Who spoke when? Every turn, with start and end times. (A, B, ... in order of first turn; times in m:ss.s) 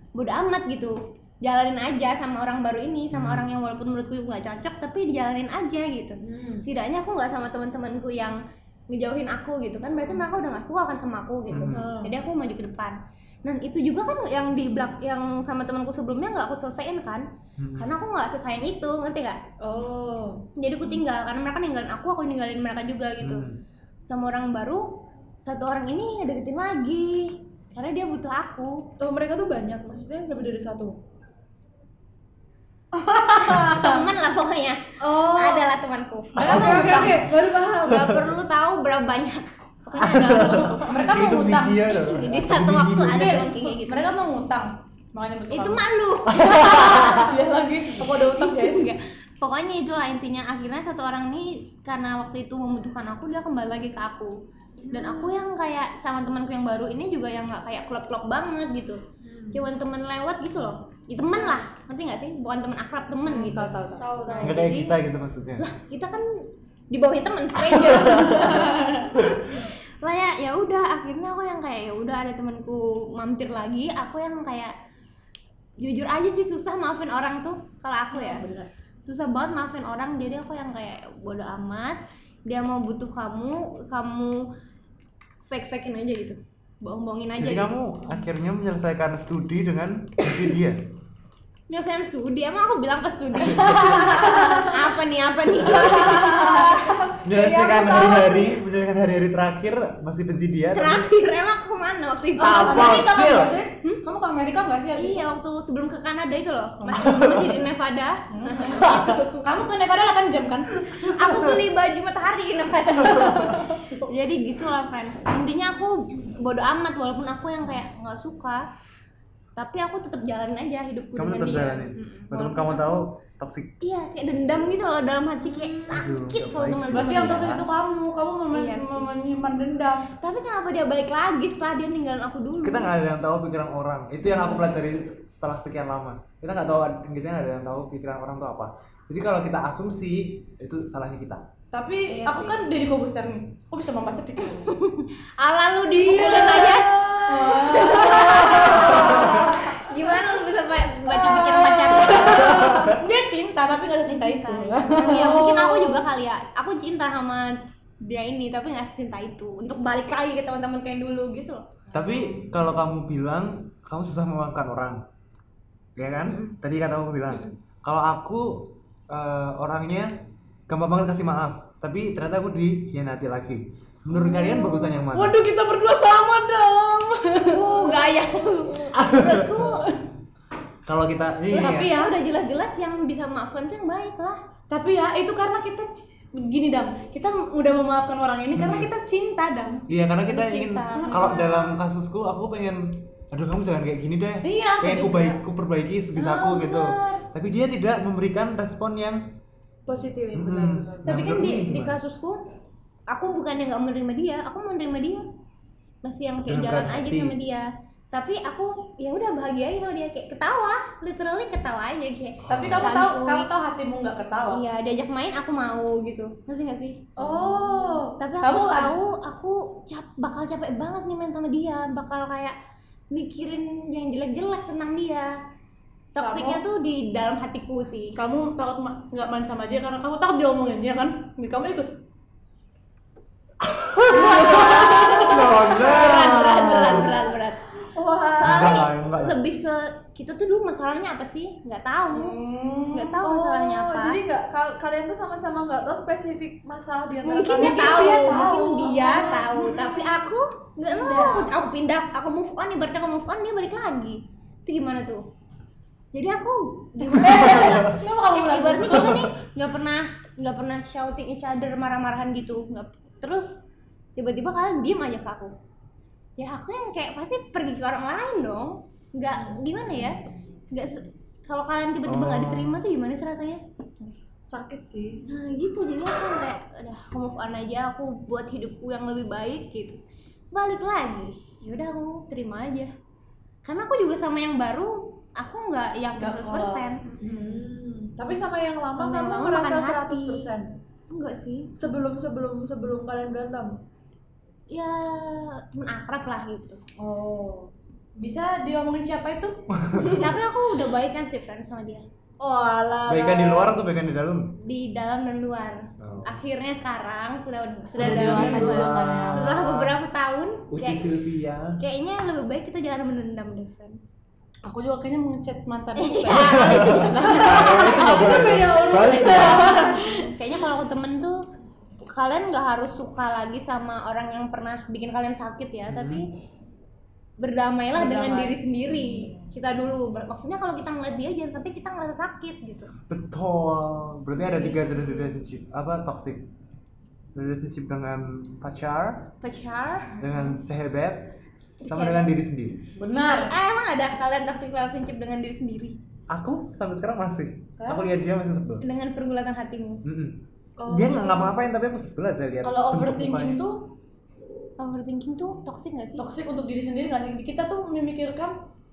0:00.2-0:17.2 A
0:03.1-0:03.5 B
0:06.2-0:06.7 C
0:11.5-0:11.9 B
0:11.7-0:12.1 C
0:17.6-0:18.0 B
0:17.8-0:19.4 A
0:19.6-0:20.5 C
0:20.6-0:23.4 A
0:23.2-0:23.6 B
0:24.1-0:28.9 A
0:29.0-0:31.0 C
0:32.9-0:34.1 D
0:33.4-0:40.9 A
0:35.0-0:35.8 C
0:36.4-0:37.3 B
0:36.4-0:38.3 C
0:40.0-0:43.5 B
0:40.0-0:41.8 D
0:40.3-0:40.6 C
0:41.9-0:44.1 A
0:43.1-0:45.8 D
0:45.5-0:47.2 A
0:46.3-0:47.3 B
0:46.6-0:48.9 D
0:48.3-0:54.4 A
0:54.8-0:55.4 C
0:54.9-0:59.0 A
0:59.2-0:59.6 C
0:59.5-1:03.7 A
1:03.3-1:04.7 D
1:03.5-1:04.7 C
1:04.2-1:04.9 A
1:04.4-1:05.6 B
1:05.6-1:06.3 A
1:06.9-1:14.7 A
1:07.7-1:08.6 B
1:15.8-1:18.4 A
1:18.1-1:18.7 D
1:19.0-1:24.5 A
1:25.5-1:27.8 A
1:27.4-1:30.8 B
1:31.7-1:38.5 A
1:33.5-1:34.2 B
1:34.3-1:34.6 D
1:35.6-1:36.4 B
1:37.2-1:41.2 B
1:40.7-1:43.1 A
1:42.4-1:43.6 B
1:42.4-1:45.2 D
1:45.0-1:49.6 A
1:46.8-1:47.1 D
1:46.9-1:47.6 B
1:48.3-1:50.8 D
1:48.8-1:49.2 B
1:50.9-1:51.5 B
1:51.0-1:58.6 A
1:53.0-1:53.7 B
1:59.6-2:03.0 A
2:01.2-2:03.8 B
2:03.8-2:07.5 A
2:05.9-2:07.7 B
2:06.9-2:10.1 D
2:08.5-2:09.1 A
2:10.2-2:12.9 A
2:12.6-2:21.4 B
2:21.7-2:24.7 D
2:22.1-2:22.6 A
2:24.7-2:32.8 A
2:25.9-2:29.7 C
2:27.3-2:29.5 D
2:28.9-2:29.2 B
2:31.0-2:35.5 D
2:32.4-2:33.0 B
2:34.1-2:41.7 A
2:35.0-2:36.0 C
2:41.9-2:45.0 B
2:46.0-2:50.2 B
2:46.3-2:46.6 A
2:50.7-2:55.4 B
2:55.1-2:58.1 D
2:57.5-2:59.8 A
2:58.9-2:59.8 B
3:00.9-3:02.0 B
3:01.5-3:02.2 D
3:01.5-3:04.4 A
3:04.7-3:09.9 D
3:08.6-3:08.9 B
3:09.9-3:19.4 B
3:10.3-3:11.4 A
3:11.0-3:11.6 D
3:14.4-3:15.4 D
3:16.2-3:17.2 A
3:19.9-3:21.2 C
3:20.3-3:22.0 B
3:21.1-3:22.4 A
3:23.1-3:25.3 A
3:26.0-3:33.5 A
3:26.5-3:27.4 B
3:32.4-3:32.9 B
3:32.5-3:34.6 D
3:34.5-3:37.1 A
3:37.2-3:38.2 C
3:37.2-3:38.9 D
3:38.2-3:42.6 A
3:43.1-3:45.3 A
3:46.1-3:48.2 A
3:46.2-3:46.6 C
3:48.2-3:51.9 D
3:53.6-3:57.1 B
3:54.1-3:57.6 A
3:54.7-3:55.2 C
3:57.8-3:58.8 C
3:58.4-4:02.4 A
3:58.4-3:59.4 B
4:02.1-4:03.2 D
4:02.9-4:04.2 A
4:03.2-4:08.6 C
4:07.2-4:15.2 A
4:07.5-4:09.8 D
4:09.4-4:10.1 C
4:10.9-4:11.5 D
4:16.1-4:23.6 A
4:17.1-4:19.1 D
4:17.3-4:18.0 B
4:18.9-4:19.3 B
4:24.2-4:25.6 A
4:26.4-4:30.2 A
4:30.7-4:33.6 A
4:32.1-4:32.8 B
4:34.0-4:35.2 C
4:35.2-4:40.0 A
4:40.5-4:42.9 A
4:43.6-4:47.0 A
4:46.2-4:47.5 D
4:47.2-4:50.7 C
4:48.9-4:50.5 A
4:51.1-4:51.8 D
4:51.8-4:53.8 C
4:54.7-4:56.8 A
4:57.0-4:57.7 C
4:58.2-4:59.6 D
4:59.7-5:00.3 B
5:00.1-5:02.1 A
5:02.4-5:03.8 C
5:03.1-5:04.6 B
5:04.6-5:11.0 A
5:06.0-5:06.4 B
5:08.0-5:09.5 D
5:08.0-5:10.0 B
5:10.7-5:11.8 B
5:11.8-5:14.1 A
5:14.6-5:20.0 D
5:16.0-5:21.4 A
5:16.3-5:19.9 B
5:18.2-5:20.0 C
5:22.0-5:26.3 A
5:25.9-5:26.2 B
5:27.4-5:32.9 A
5:28.0-5:28.6 D
5:33.1-5:36.5 B
5:34.5-5:35.4 A
5:37.4-5:39.3 B
5:39.4-5:40.5 A
5:40.2-5:41.3 B
5:41.8-5:42.4 A
5:41.9-5:42.9 B
5:43.0-5:43.6 D
5:43.2-5:46.0 A
5:46.3-5:48.8 B
5:48.8-5:50.0 A
5:50.0-5:53.6 B
5:50.8-5:51.5 C
5:52.6-5:53.9 D
5:54.8-5:56.2 A
5:56.2-5:58.6 D